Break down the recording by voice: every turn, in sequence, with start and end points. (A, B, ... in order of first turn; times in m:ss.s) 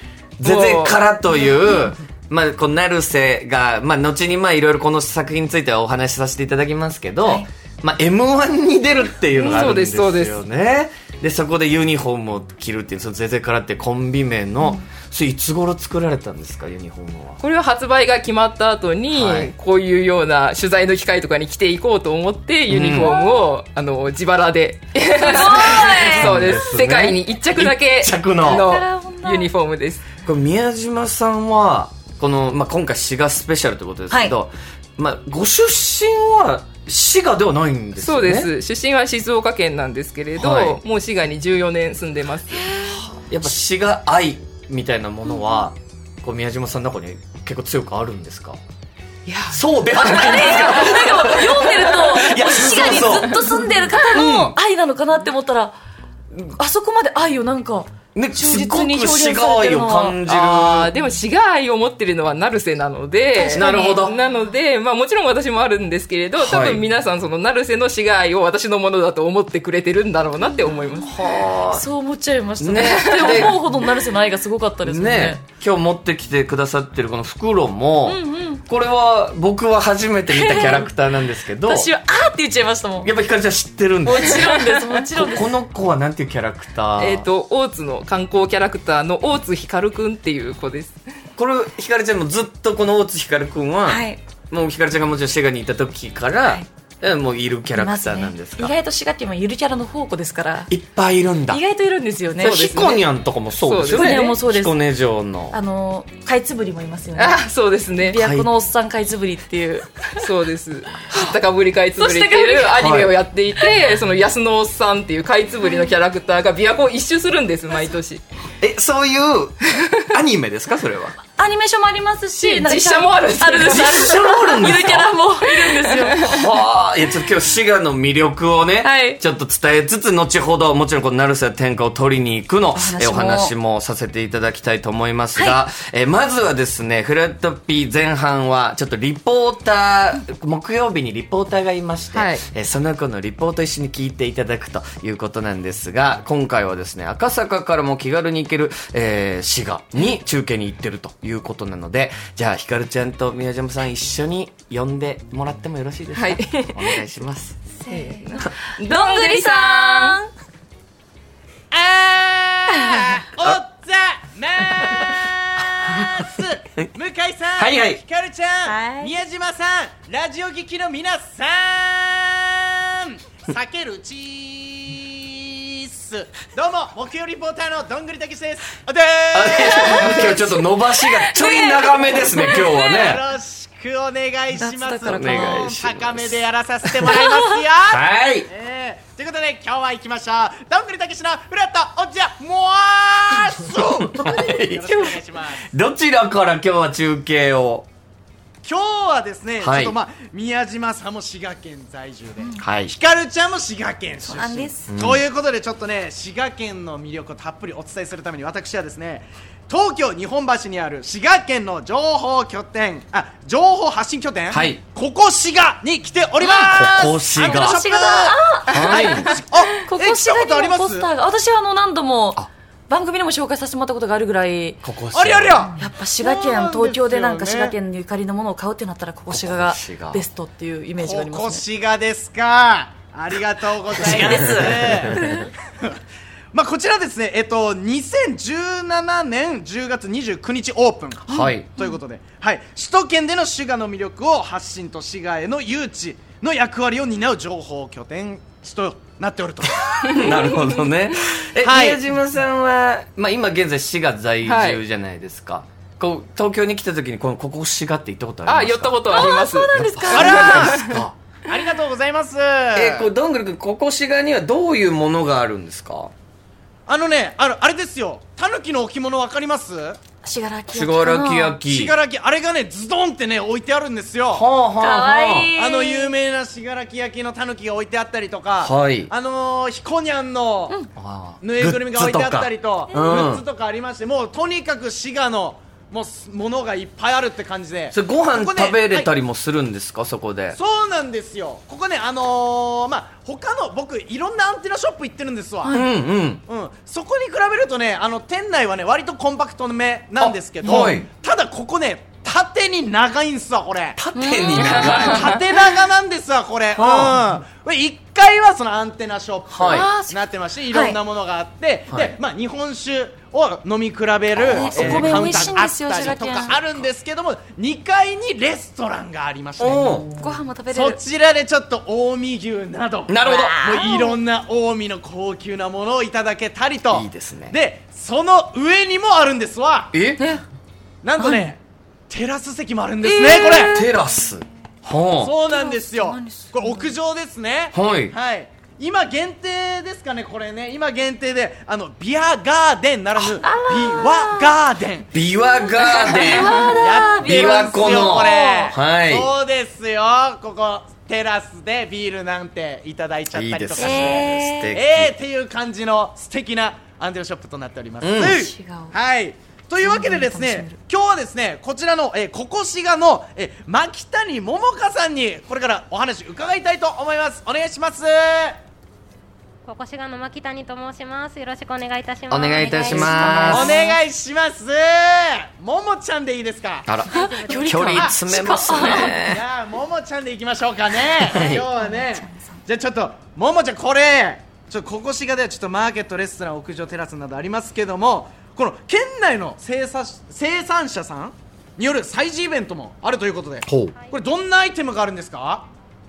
0:00.4-0:17.4 A
0:00.4-0:01.0 B
0:09.4-0:10.4 B
0:14.6-0:14.9 C
0:17.4-0:30.0 B
0:19.1-0:19.5 A
0:22.7-0:23.1 A
0:23.0-0:23.4 C
0:25.1-0:26.8 C
0:25.4-0:28.7 A
0:28.4-0:29.5 C
0:30.2-0:38.5 A
0:34.1-0:34.3 C
0:38.0-0:42.9 B
0:40.4-0:40.8 A
0:43.0-0:48.6 A
0:49.2-0:49.6 B
0:49.5-0:53.4 A
0:49.9-0:55.7 C
0:50.3-0:50.6 B
0:52.3-0:54.0 B
0:54.1-0:54.6 A
0:56.4-1:00.2 C
0:58.1-1:00.9 A
1:00.3-1:11.1 B
1:03.3-1:04.0 C
1:03.5-1:04.1 A
1:06.4-1:06.8 A
1:10.4-1:15.4 C
1:11.0-1:11.8 A
1:12.6-1:13.6 A
1:12.8-1:13.4 B
1:14.8-1:21.9 A
1:18.0-1:18.6 C
1:20.3-1:20.9 C
1:21.6-1:23.1 C
1:23.0-1:24.5 A
1:24.0-1:25.6 C
1:24.5-1:24.8 B
1:25.1-1:27.3 A
1:27.0-1:31.0 B
1:31.4-1:38.7 A
1:33.8-1:34.2 C
1:37.7-1:40.7 C
1:40.7-1:41.6 A
1:41.5-1:42.8 C
1:42.4-1:45.6 A
1:42.4-1:43.0 B
1:43.6-1:44.3 B
1:43.9-1:44.8 C
1:45.5-1:47.4 C
1:47.2-1:48.2 B
1:48.0-1:50.2 C
1:48.2-1:48.5 A
1:50.2-1:58.2 B
1:52.0-1:52.8 C
1:52.8-1:53.1 A
1:58.6-2:01.2 A
2:01.4-2:06.3 C
2:02.3-2:04.2 B
2:03.6-2:05.1 A
2:05.4-2:06.4 B
2:06.2-2:37.6 A
2:08.8-2:09.2 C
2:12.7-2:13.5 C
2:15.4-2:15.6 C
2:22.1-2:22.4 B
2:36.1-2:37.0 B
2:37.8-2:40.3 C
2:37.9-2:40.2 B
2:41.7-3:00.6 D
2:47.6-2:48.0 A
2:48.6-2:49.2 C
2:59.3-3:03.2 A
2:59.6-3:00.4 C
3:01.0-3:02.9 C
3:02.1-3:15.7 D
3:04.6-3:05.7 C
3:05.1-3:06.4 A
3:07.0-3:07.6 C
3:07.9-3:08.5 A
3:13.8-3:15.1 A
3:15.7-3:17.9 A
3:18.6-3:41.1 D
3:19.6-3:19.9 A
3:22.6-3:22.9 A
3:24.2-3:24.9 C
3:24.9-3:25.2 A
3:34.5-3:34.8 A
3:36.5-3:37.7 A
3:37.4-3:44.8 C
3:38.7-3:39.2 A
3:44.8-3:45.7 A
3:45.1-3:47.8 D
3:45.7-3:51.6 C
3:49.3-3:50.2 A
3:51.0-3:56.0 D
3:54.0-3:55.3 C
3:54.0-3:55.2 A
3:56.5-4:10.5 D
4:01.3-4:01.7 A
4:01.3-4:02.0 C
4:10.1-4:19.3 A
4:11.6-4:12.0 D
4:14.4-4:14.8 B
4:18.4-4:20.8 B
4:19.1-4:20.8 C
4:19.8-4:21.1 A
4:20.1-4:23.1 D
4:22.7-4:26.1 A
4:26.8-4:30.0 D
4:30.2-4:31.6 C
4:30.7-4:31.9 A
4:31.7-4:34.4 D
4:34.3-4:35.5 A
4:34.8-4:36.1 C
4:35.6-4:40.8 D
4:38.6-4:39.1 A
4:41.0-4:43.4 A
4:41.4-4:49.1 D
4:42.9-4:43.3 C
4:47.9-4:50.6 A
4:50.5-4:55.8 D
4:55.7-4:56.4 A
4:56.4-5:04.0 D
5:00.2-5:01.0 A
5:03.9-5:05.4 A
5:04.1-5:05.2 C
5:04.6-5:29.9 D
5:06.8-5:07.2 A
5:09.5-5:09.9 A
5:09.7-5:11.0 C
5:14.3-5:15.5 A
5:14.5-5:16.6 C
5:19.6-5:20.0 A
5:20.2-5:21.0 C
5:23.1-5:23.6 A
5:23.2-5:24.2 C
5:26.9-5:27.5 A
5:29.9-5:30.2 A
5:31.0-5:33.8 D
5:31.2-5:31.5 C
5:33.0-5:33.9 C
5:33.6-5:35.3 A
5:35.2-5:45.1 D
5:35.5-5:36.9 C
5:37.7-5:38.1 A
5:43.2-5:44.6 C
5:45.1-5:46.6 A
5:45.5-5:48.7 C
5:46.2-6:08.6 D
5:47.2-5:49.3 A
5:53.3-5:55.1 A
5:53.8-5:54.7 C
5:58.0-5:58.4 A
5:58.2-5:59.0 C
5:59.8-6:00.8 C
6:09.6-6:13.1 E
6:12.3-6:13.8 A
6:12.6-6:14.0 C
6:12.9-6:16.9 D
6:16.8-6:19.4 A
6:17.1-6:18.1 E
6:17.1-6:19.2 C
6:18.7-6:35.7 D
6:21.2-6:22.6 C
6:21.3-6:21.6 A
6:33.7-6:33.9 A
6:33.9-6:34.4 E